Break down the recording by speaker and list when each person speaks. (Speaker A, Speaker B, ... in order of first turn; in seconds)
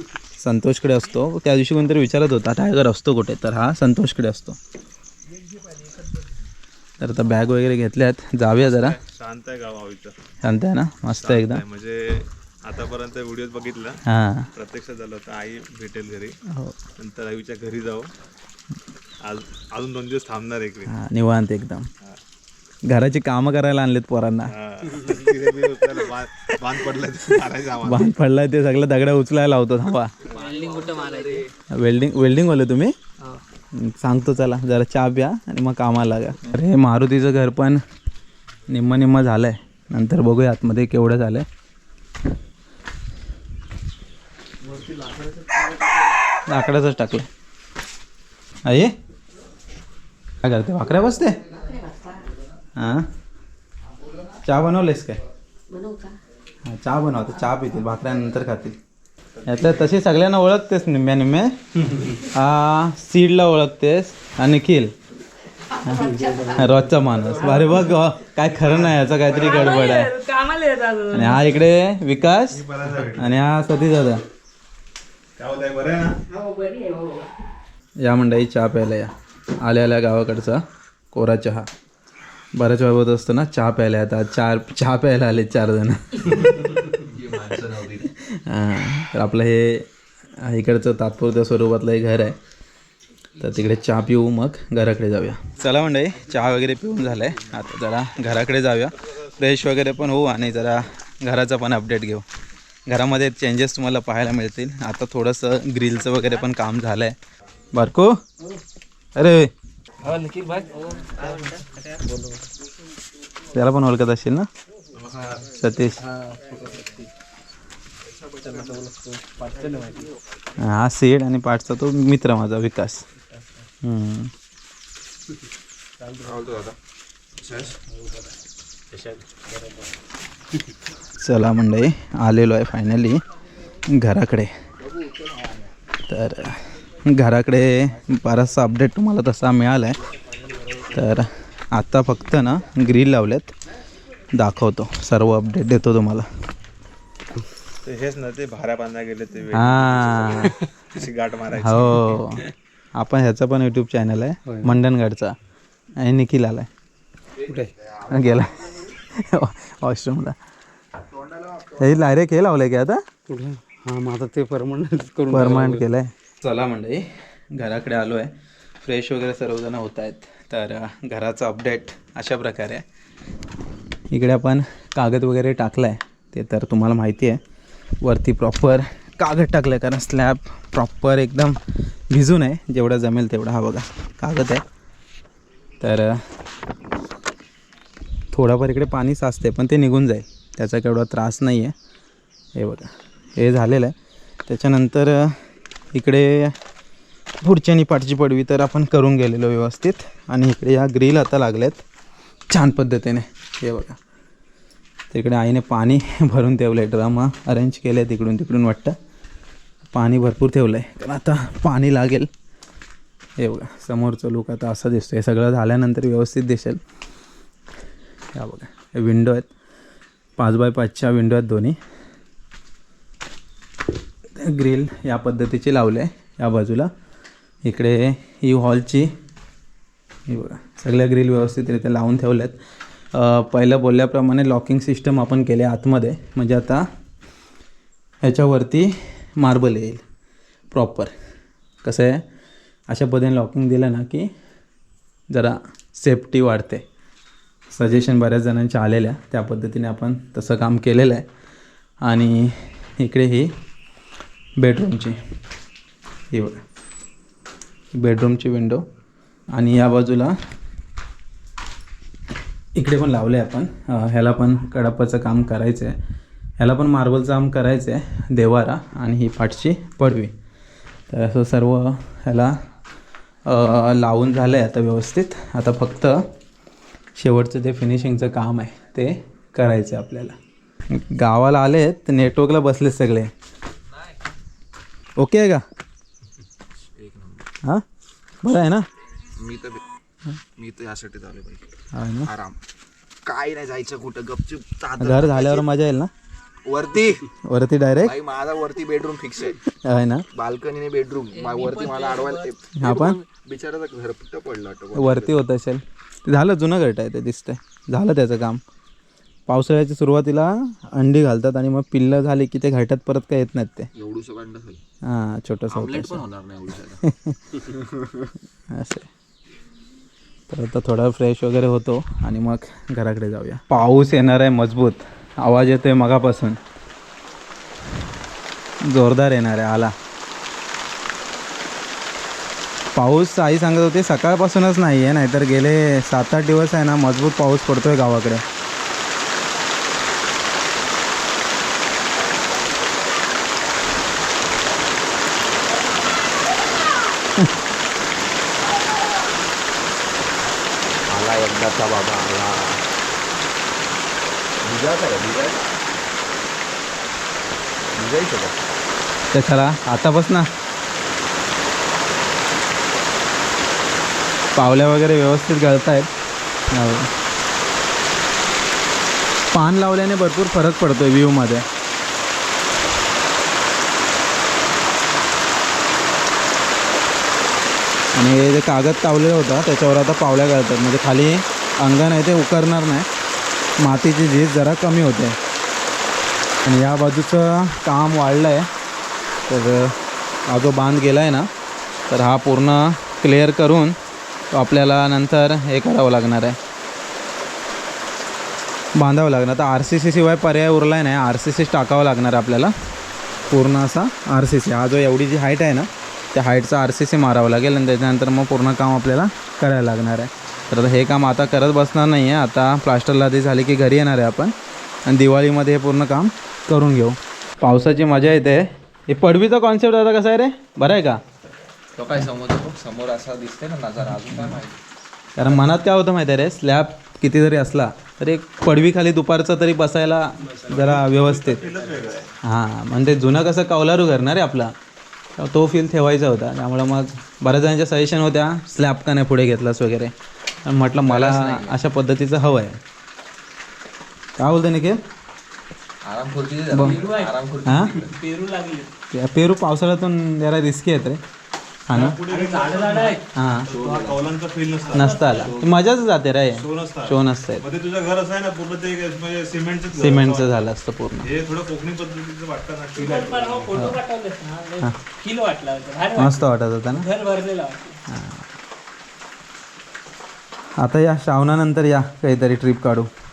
Speaker A: 0.4-4.6, 7.0-9.0, 10.4-11.6, 14.1-14.5, 16.5-16.8, 20.9-21.9, 22.9-24.5, 27.8-30.1, 31.8-32.9, 33.7-37.8, 38.7-41.5, 46.4-47.3, 48.6-48.9, 50.4-51.4, 52.8-53.0, 54.5-55.2, 56.6-58.8, 59.5-61.6, 62.3-64.9, 65.8-70.1, 71.1-72.6, 73.2-74.2, 78.0-81.7, 82.5-86.8, 88.3-89.8, 90.4-92.4, 93.4-102.2, 102.9-107.2, 107.7-108.2, 109.2-109.5, 113.5-114.5, 115.5-116.0, 120.6-123.0, 123.8-124.3, 131.2-133.2, 133.9-134.5, 136.1-139.9, 140.9-143.5, 144.3-146.3, 149.5-150.5, 151.6-155.3, 156.0-156.7, 158.1-160.3, 161.8-163.0, 165.3-168.3, 168.8-172.8, 174.1-177.4, 178.0-181.6, 182.1-184.6, 185.8-186.2, 188.3-191.7, 192.6-193.9, 194.5-195.3, 195.9-196.5, 197.4-201.8, 202.5-204.0, 205.1-208.9, 209.9-212.3, 213.4-216.8, 218.3-219.5, 220.4-221.8, 224.4-226.9, 227.6-229.1, 230.3-232.6, 233.1-236.8, 238.2-240.0, 240.7-241.1, 241.8-242.2, 242.9-244.3, 245.3-246.8, 247.7-251.2, 252.0-253.5, 254.6-255.2, 256.3-256.6, 258.0-258.8, 259.5-260.3, 262.7-265.9, 266.6-270.3, 271.1-272.6, 273.4-276.3, 277.1-280.4, 280.9-283.3, 285.2-285.6, 288.4-288.8, 291.9-292.3, 295.0-296.1, 297.4-298.2, 299.8-300.2, 302.8-303.2, 304.9-308.6, 309.5-313.9, 315.1-316.2, 317.1-317.4, 318.7-319.1, 320.5-326.6, 328.9-329.9, 332.9-338.4, 359.3-360.5, 364.6-366.1, 366.7-367.1, 369.5-371.6, 378.1-383.1, 383.8-385.4, 386.6-388.7, 389.5-389.9, 390.5-391.5, 392.1-394.0, 394.5-396.6, 398.9-402.7, 403.5-414.5, 415.1-421.2, 425.4-431.6, 432.4-434.7, 435.4-440.1, 440.6-442.8, 444.4-445.0, 446.7-447.0, 447.6-448.0, 449.1-451.2, 451.9-452.2, 453.4-453.7, 454.9-457.6, 459.9-461.2, 466.1-467.1, 468.1-468.4, 470.8-473.1
Speaker B: 8.5-10.1, 11.2-14.0, 14.5-16.4, 17.0-18.1, 19.2-20.9, 24.5-28.1, 59.4-59.8, 67.3-69.9, 72.5-73.4, 75.4-76.2, 114.9-115.5, 147.8-152.2, 430.7-432.3, 451.9-455.6, 456.5-460.6, 461.2-463.8
Speaker C: 30.2-31.5, 44.6-45.6, 86.9-88.1, 126.2-126.7, 127.4-127.8, 134.8-135.6, 286.9-287.5, 289.4-289.8, 290.5-291.7, 292.2-292.6, 293.2-295.6, 296.6-297.2, 298.0-299.6, 300.3-305.4, 313.9-314.8, 315.7-317.0, 317.6-317.9, 351.1-352.8, 354.6-355.6, 357.9-358.6, 421.9-424.8, 441.0-441.8, 446.0-448.1, 453.7-454.2, 455.3-455.7
Speaker D: 30.3-31.4, 55.7-56.0, 67.4-67.8, 69.4-71.5, 76.3-77.3, 111.0-111.6, 301.3-302.5, 446.8-447.3, 448.1-448.9, 452.3-453.2, 454.8-455.5, 462.9-467.9
Speaker E: 65.9-67.0, 110.0-112.4, 116.0-117.1, 118.4-120.1, 123.3-123.6, 126.0-126.5, 127.9-128.3, 128.9-129.9, 154.4-154.7, 163.3-165.8, 430.4-431.0, 431.6-432.0